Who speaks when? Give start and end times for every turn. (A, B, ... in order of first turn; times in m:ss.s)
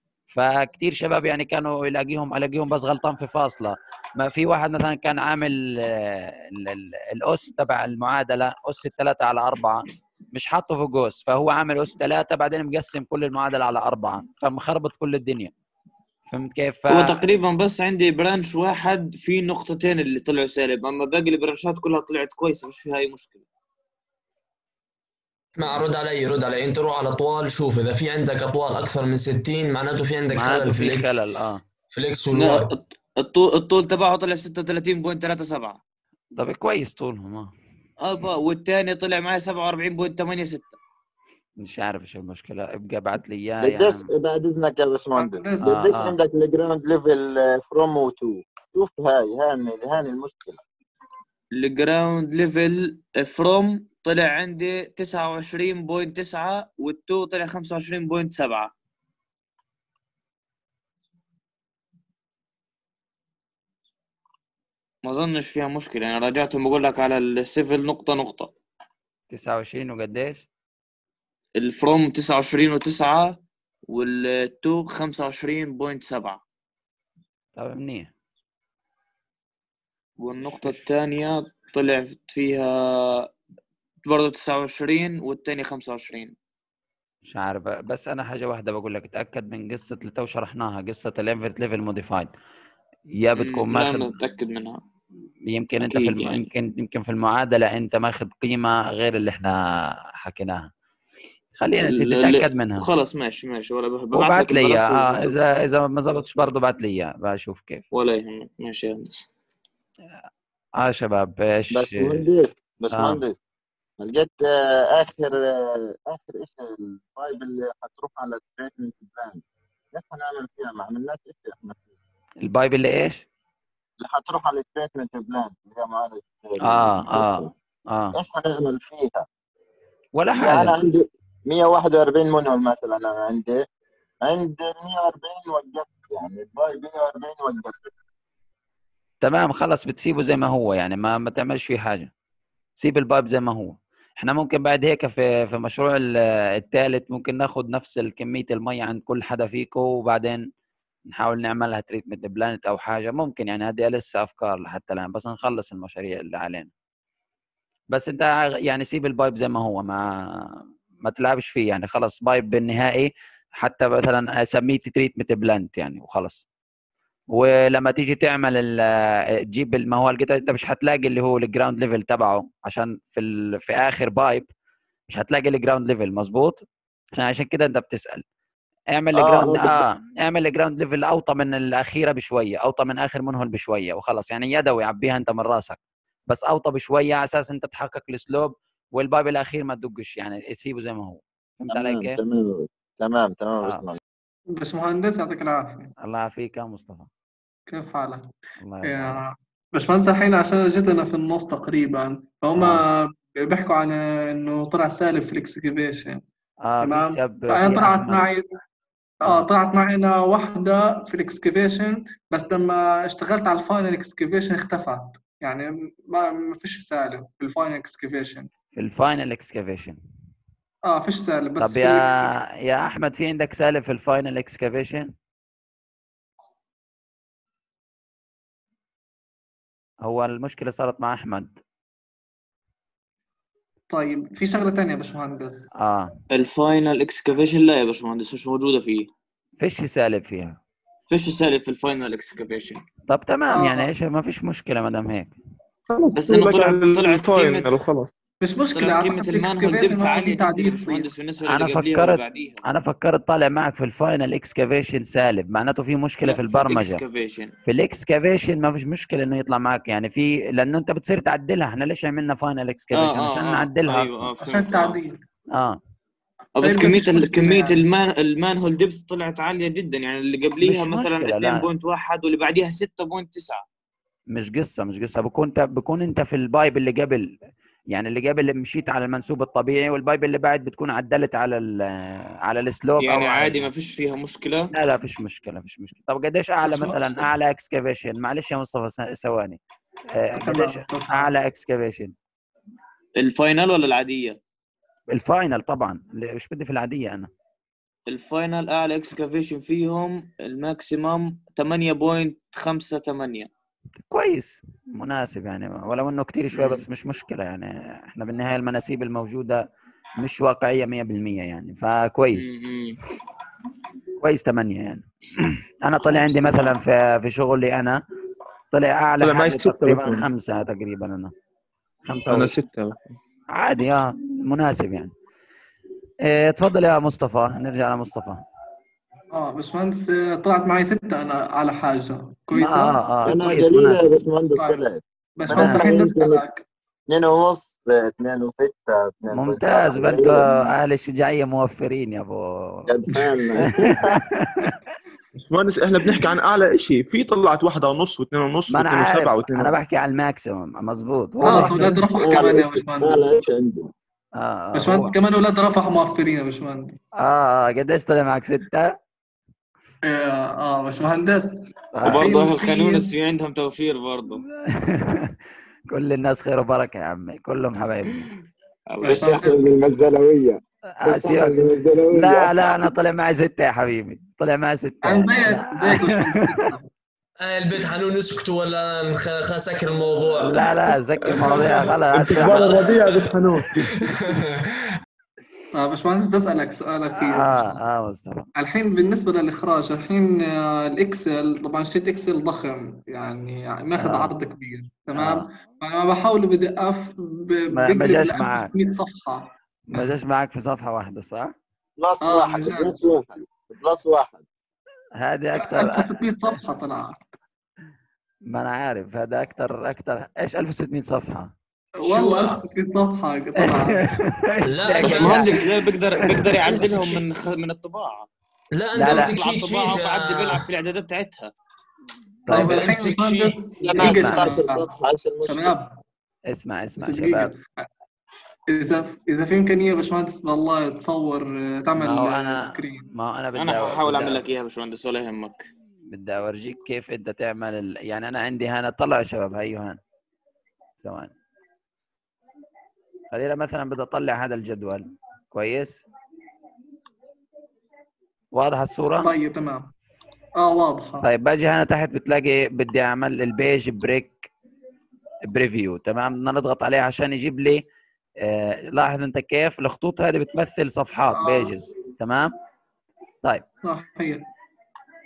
0:00.3-0:15.5 A
0:16.3-0:17.2 A
0:16.9-0:23.4 B
0:25.6-0:31.2 C
0:30.3-0:31.6 A
0:31.9-0:32.7 C
0:32.3-0:35.8 B
0:36.4-0:37.5 A
0:38.0-0:40.8 B
0:41.6-0:44.1 A
0:43.6-0:50.6 D
0:45.2-0:45.8 E
0:45.6-0:46.2 A
0:51.6-0:58.7 B
1:05.0-1:08.5 B
1:09.3-1:10.4 A
1:11.6-1:13.4 B
1:13.9-1:16.4 B
1:17.6-1:18.1 A
1:20.2-1:23.3 B
1:24.1-1:26.3 B
1:27.3-1:32.3 A
1:33.1-1:34.2 A
1:33.4-1:34.8 B
1:35.5-1:39.6 A
1:35.9-1:36.4 B
1:40.2-1:40.7 A
1:41.6-1:42.9 A
1:41.8-1:45.4 B
1:44.1-1:47.8 A
1:47.9-1:49.3 B
1:50.8-1:52.2 A
1:51.7-1:53.4 D
1:52.9-1:53.2 A
1:54.0-2:01.8 D
2:02.4-2:03.2 A
2:04.0-2:07.5 D
2:06.6-2:08.2 A
2:08.1-2:09.2 D
2:10.2-2:10.8 A
2:10.4-2:13.6 D
2:14.2-2:17.9 D
2:19.2-2:22.1 A
2:22.8-2:30.4 A
2:31.1-2:36.7 A
2:37.9-2:40.1 A
2:41.0-2:46.4 A
2:47.3-2:54.5 A
2:55.1-2:56.6 A
2:57.1-2:58.2 A
2:58.9-3:05.8 A
2:59.2-2:59.8 D
3:06.3-3:12.2 A
3:11.7-3:14.0 D
3:14.6-3:15.9 E
3:16.0-3:17.1 A
3:17.7-3:26.2 E
3:18.6-3:19.2 A
3:22.6-3:22.8 A
3:26.6-3:28.3 A
3:26.8-3:28.5 E
3:29.2-3:38.5 E
3:38.7-3:40.0 A
3:40.9-3:42.3 E
3:41.6-3:45.1 A
3:50.0-3:51.5 A
3:53.9-3:55.7 E
3:55.8-3:56.1 A
3:56.3-3:59.1 B
3:59.6-4:00.6 A
4:01.1-4:02.8 B
4:03.1-4:05.3 A
4:03.5-4:03.9 E
4:05.9-4:08.1 F
4:06.1-4:07.7 B
4:08.4-4:11.1 E
4:08.7-4:12.6 B
4:11.5-4:17.0 A
4:16.2-4:17.5 B
4:17.7-4:24.3 A
4:22.9-4:25.0 B
4:24.4-4:25.2 E
4:25.5-4:25.8 A
4:26.6-4:33.6 B
4:26.6-4:27.8 E
4:30.6-4:31.7 A
4:34.3-4:37.3 A
4:37.9-4:43.7 A
4:43.0-4:44.7 B
4:44.7-4:49.6 A
4:46.6-4:47.2 E
4:50.2-4:52.1 A
4:50.4-4:51.3 E
4:53.2-4:54.4 B
4:55.1-4:57.3 A
4:58.1-5:03.5 B
5:04.1-5:09.6 A
5:06.5-5:06.8 B
5:10.2-5:12.6 A
5:12.4-5:13.0 B
5:14.2-5:18.0 A
5:16.0-5:16.7 B
5:18.7-5:21.3 A
5:19.2-5:20.2 F
5:22.1-5:22.5 A
5:22.3-5:23.2 F
5:23.5-5:25.1 A
5:26.2-5:28.4 A
5:29.3-5:33.0 E
5:32.6-5:34.1 A
5:33.2-5:36.4 D
5:34.6-5:34.9 E
5:35.4-5:36.6 E
5:35.5-5:35.9 A
5:37.1-5:40.4 D
5:39.3-5:42.9 A
5:42.9-5:44.2 D
5:43.6-5:44.8 A
5:45.4-5:49.7 F
5:48.7-5:52.0 A
5:51.4-5:53.3 E
5:51.5-5:53.9 D
5:54.4-5:55.2 A
5:54.7-5:57.0 E
5:57.2-5:58.9 A
6:00.0-6:03.1 E
6:01.9-6:02.3 A
6:02.0-6:04.4 B
6:04.6-6:05.4 A
6:05.9-6:08.4 A
6:08.9-6:09.4 B
6:09.0-6:09.6 E
6:09.1-6:12.7 D
6:11.0-6:11.6 A
6:12.1-6:16.6 A
6:15.0-6:16.9 E
6:17.4-6:25.0 C
6:20.4-6:22.8 A
6:22.1-6:24.2 F
6:25.7-6:27.8 E
6:27.1-6:28.5 A
6:28.6-6:40.1 E
6:34.0-6:34.3 A
6:35.1-6:35.5 A
6:37.7-6:38.7 A
6:39.9-6:41.5 A
6:42.0-6:44.4 D
6:42.2-6:43.0 E
6:45.2-6:46.6 A
6:45.6-6:47.4 E
6:48.5-6:51.5 A
6:52.0-6:54.0 E
6:52.0-6:52.6 C
6:53.6-6:55.6 A
6:54.6-6:55.7 C
6:55.0-6:58.3 B
6:56.1-6:56.5 A
6:58.7-7:00.7 C
6:59.0-6:59.4 A
6:59.1-7:01.5 B
7:02.5-7:02.9 A
7:02.5-7:04.9 E
7:02.5-7:03.9 C
7:03.9-7:05.8 D
7:04.0-7:04.6 A
7:05.4-7:05.9 E
7:06.5-7:07.5 A
7:07.0-7:07.6 E
7:08.7-7:13.1 E
7:12.0-7:14.4 A
7:13.6-7:15.7 B
7:16.1-7:20.0 A
7:21.0-7:21.3 A
7:23.3-7:26.0 A
7:28.5-7:29.4 A
7:29.2-7:29.9 E
7:30.6-7:31.3 E
7:31.2-7:34.5 A
7:35.5-7:37.8 A
7:38.4-7:42.5 A
7:41.3-7:41.8 E
7:43.8-7:44.4 E